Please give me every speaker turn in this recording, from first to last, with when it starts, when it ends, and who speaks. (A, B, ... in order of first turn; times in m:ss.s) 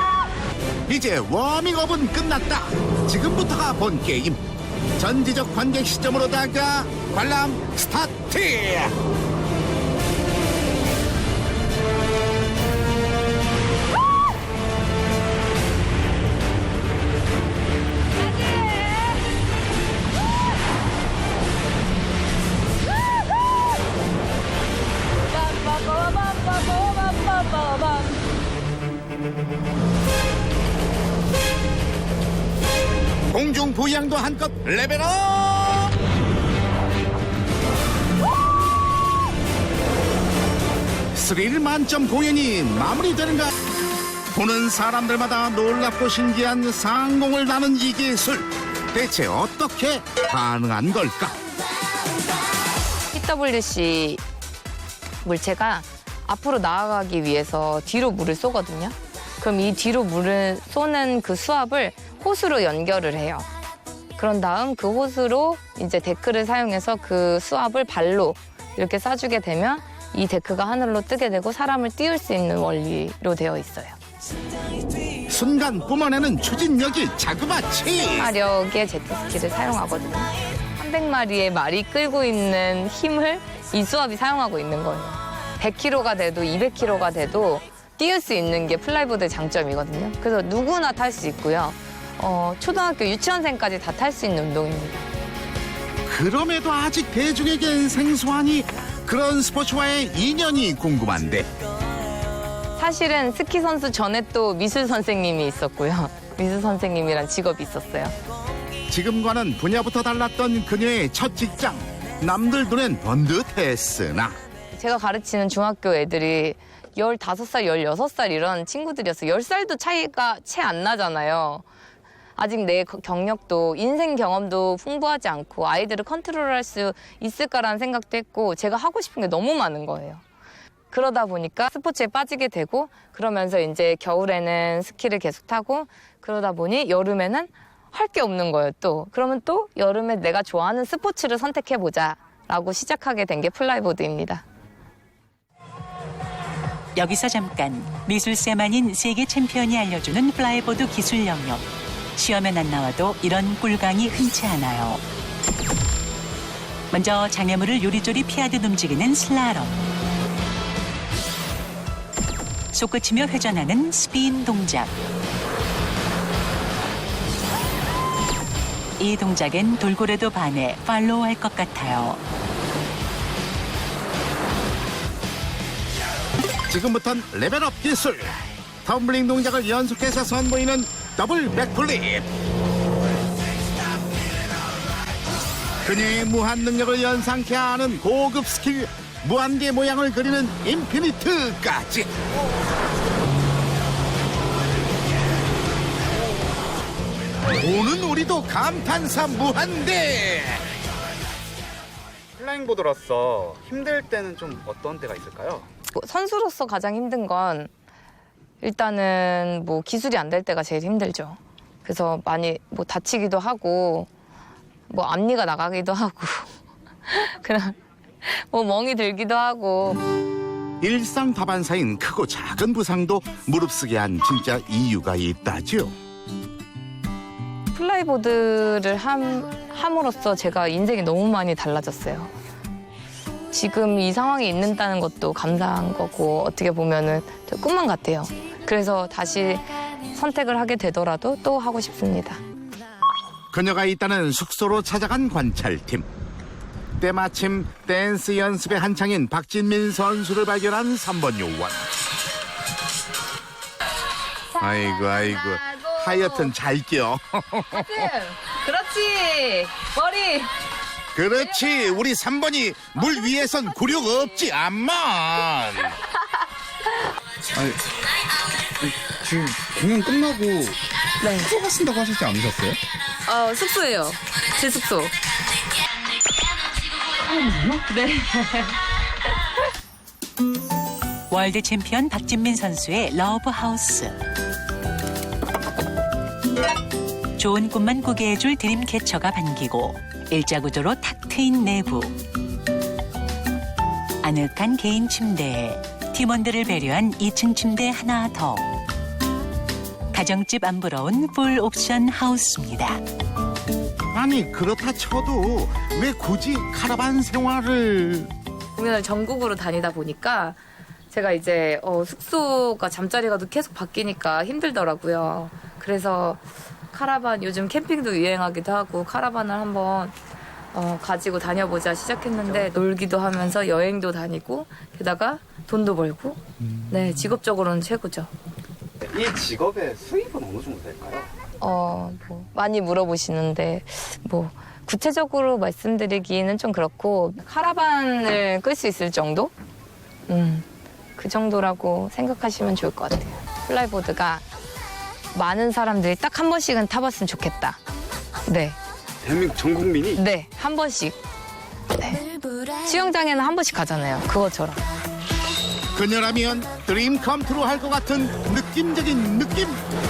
0:00.9-0:04.4 A
0:05.0-0:08.9 A
0:25.5-0:28.1 B
0:33.3-0:35.9 A
0:41.1-0:43.5 A
0:44.3-0:51.4 A
0:53.1-0:54.2 B
0:55.2-1:03.4 B
1:04.2-1:14.0 B
1:15.3-1:18.3 A
1:18.1-1:35.0 B
1:36.0-1:41.5 A
1:42.8-1:48.1 B
1:48.9-1:54.4 A
1:54.7-2:01.6 B
2:02.4-2:10.2 B
2:10.9-2:24.4 B
2:26.9-2:35.0 C
2:36.9-2:39.9 C
2:42.7-2:44.9 C
2:49.0-2:52.2 C
2:56.7-3:02.3 A
3:05.8-3:12.1 A
3:17.5-3:20.6 A
3:22.4-3:25.7 D
3:25.9-3:27.7 B
3:28.6-3:34.1 B
3:34.9-3:36.5 B
3:37.1-3:40.0 B
3:40.8-3:45.9 A
3:47.7-3:52.3 B
3:53.5-4:02.4 B
4:03.5-4:06.0 A
4:07.0-4:11.8 A
4:14.6-4:16.5 B
4:14.6-4:18.1 A
4:17.7-4:20.5 B
4:21.1-4:26.0 A
4:21.4-4:22.0 B
4:23.8-4:24.2 B
4:27.5-4:27.8 E
4:28.8-4:30.8 E
4:31.2-4:31.5 B
4:31.4-4:32.8 E
4:33.2-4:35.1 B
4:37.3-4:38.8 B
4:41.3-4:44.2 C
4:47.4-4:52.2 C
4:54.2-4:58.7 C
5:00.1-5:03.0 C
5:04.1-5:08.3 A
5:08.8-5:10.6 B
5:11.1-5:20.1 B
5:20.7-5:28.3 B
5:29.0-5:31.3 D
5:31.6-5:39.5 B
5:40.3-5:40.6 B
5:41.2-5:44.4 B
5:45.3-5:47.8 B
5:48.4-5:48.8 B
5:49.2-5:50.2 D
5:50.2-5:51.2 B
5:52.0-5:54.8 B
5:55.9-5:59.8 A